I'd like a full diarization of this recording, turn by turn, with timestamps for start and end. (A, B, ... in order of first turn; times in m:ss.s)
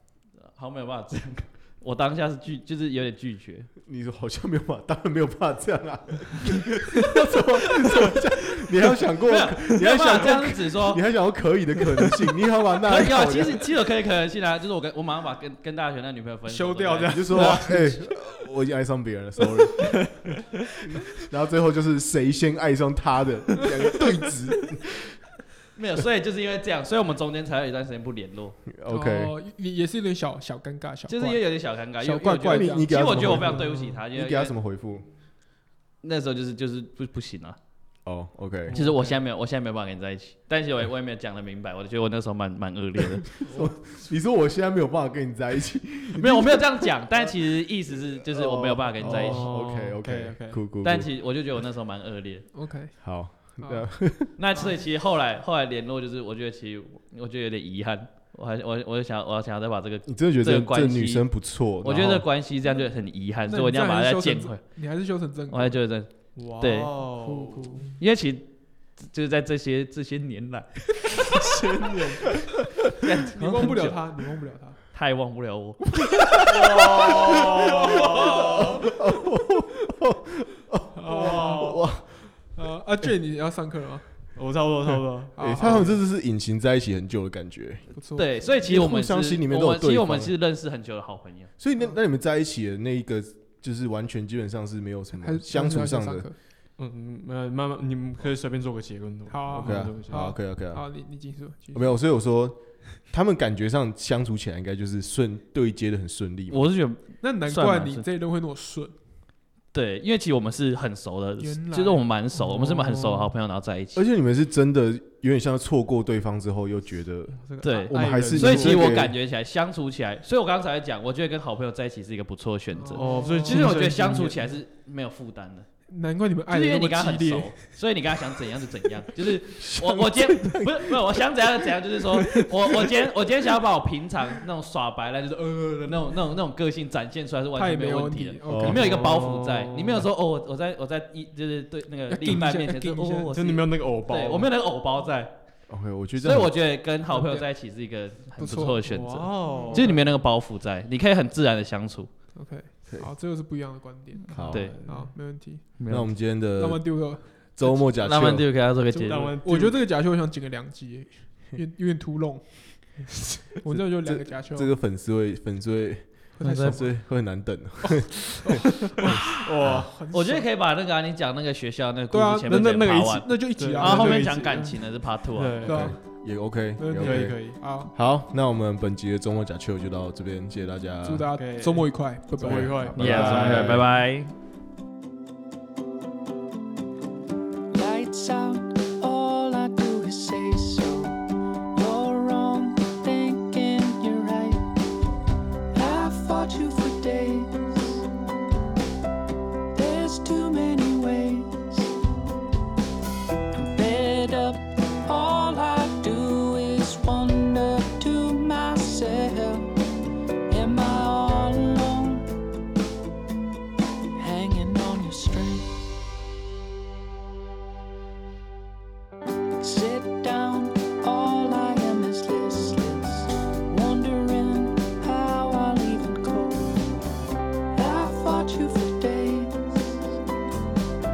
0:00.4-0:03.7 A
0:03.8-0:13.6 B
0:09.2-0:11.0 A
0:12.9-0:17.7 A
0:16.5-0:18.0 C
0:17.1-0:20.3 B
0:20.8-0:25.0 B
0:25.8-0:28.6 A
0:28.7-0:29.3 B
0:28.9-0:31.4 C
0:31.1-0:34.5 A
0:32.0-0:33.4 C
0:32.5-0:35.1 B
0:33.1-0:34.0 D
0:36.0-0:37.6 A
0:38.1-0:38.8 B
0:38.7-0:39.2 D
0:38.7-0:43.3 A
0:43.0-0:51.1 B
0:46.2-0:49.5 A
0:49.0-0:50.6 D
0:50.8-0:52.5 A
0:52.5-0:53.9 C
0:53.0-0:54.3 B
0:54.4-1:01.2 A
1:00.1-1:02.3 B
1:01.8-1:04.6 A
1:03.5-1:05.8 C
1:05.5-1:06.9 A
1:06.4-1:07.9 D
1:07.2-1:07.9 C
1:08.0-1:11.4 A
1:11.3-1:12.2 D
1:11.6-1:12.3 C
1:12.8-1:14.0 A
1:13.2-1:14.8 C
1:14.9-1:18.5 A
1:16.3-1:22.3 B
1:16.5-1:18.8 D
1:21.0-1:21.8 C
1:21.0-1:21.8 D
1:22.5-1:24.1 C
1:24.4-1:26.0 D
1:25.4-1:25.9 C
1:25.4-1:27.9 B
1:27.9-1:28.5 C
1:28.2-1:31.5 A
1:28.5-1:30.4 B
1:31.6-1:36.3 B
1:35.2-1:36.4 C
1:36.8-1:40.3 D
1:39.3-1:42.0 C
1:39.6-1:40.8 B
1:41.7-1:46.6 B
1:46.5-1:48.0 A
1:47.2-1:48.9 C
1:49.7-1:54.0 A
1:51.4-1:52.1 C
1:52.4-1:53.3 D
1:53.9-1:59.2 B
1:57.4-1:59.1 D
1:57.6-2:05.7 A
2:02.8-2:03.7 C
2:03.0-2:04.6 D
2:05.9-2:07.6 C
2:06.5-2:25.4 A
2:09.5-2:11.5 B
2:12.1-2:12.9 B
2:17.6-2:18.9 C
2:18.5-2:18.8 B
2:18.6-2:20.1 D
2:22.1-2:23.4 C
2:23.3-2:24.5 D
2:25.7-2:26.5 B
2:26.2-2:32.1 A
2:27.1-2:27.5 C
2:28.4-2:30.0 C
2:28.9-2:30.1 D
2:32.4-2:35.7 C
2:34.3-2:34.7 B
2:34.4-2:35.1 D
2:34.5-2:34.8 A
2:35.8-2:36.1 A
2:35.9-2:38.6 B
2:36.6-2:37.9 C
2:38.0-2:39.3 A
2:38.9-2:43.0 C
2:39.0-2:39.8 D
2:43.6-2:44.7 C
2:43.7-2:49.9 B
2:46.4-2:47.0 C
2:46.4-2:46.8 A
2:47.8-2:50.5 C
2:49.4-2:49.9 D
2:50.1-2:55.8 A
2:52.1-2:54.8 C
2:52.5-2:56.0 D
2:55.7-2:56.0 C
2:55.7-3:01.3 B
2:56.8-2:57.9 C
2:57.0-2:57.6 D
3:01.0-3:03.4 C
3:01.3-3:03.9 D
3:02.5-3:03.9 B
3:03.0-3:04.3 A
3:07.7-3:11.2 E
3:11.7-3:14.6 E
3:15.7-3:18.1 E
3:19.7-3:22.0 E
3:23.5-3:29.7 E
3:30.5-3:32.3 E
3:34.2-3:35.7 E
3:39.6-3:46.8 E
3:47.7-3:50.0 E